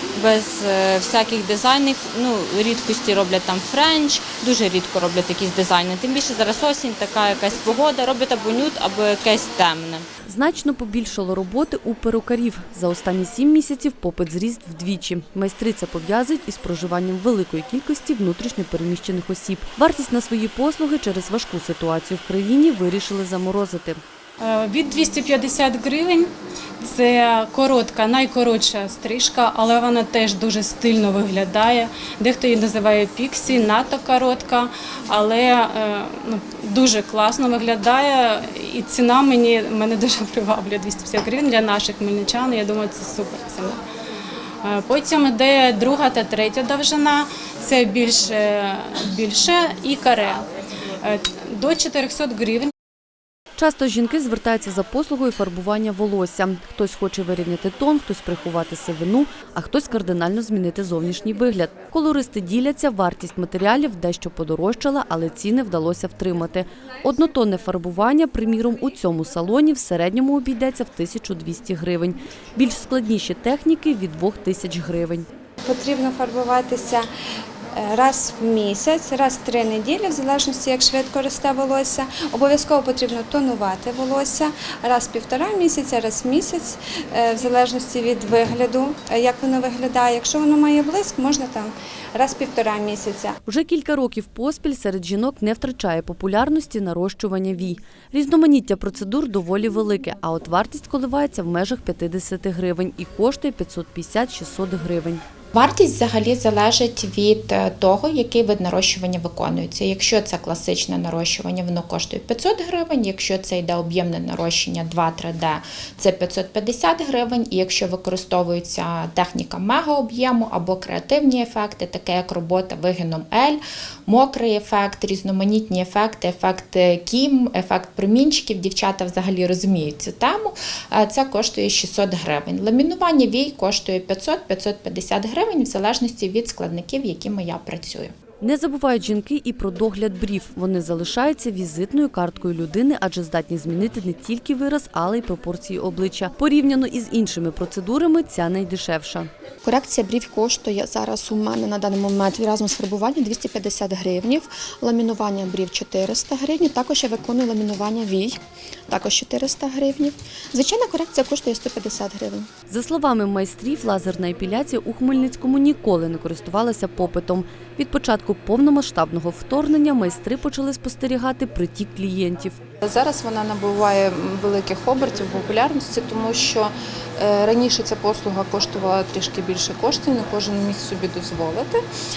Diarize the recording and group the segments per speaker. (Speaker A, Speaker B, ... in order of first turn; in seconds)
Speaker A: 0.2-10.0
Speaker B: 10.3-24.0, 53.6-75.3, 93.5-105.2, 138.4-149.3, 162.7-172.6
Speaker C: 24.4-26.3, 26.8-43.8, 44.6-50.5, 51.0-52.7
Speaker D: 75.6-77.1, 77.7-93.4
Speaker E: 105.5-138.1
Speaker F: 149.6-162.5
Speaker G: 172.8-181.8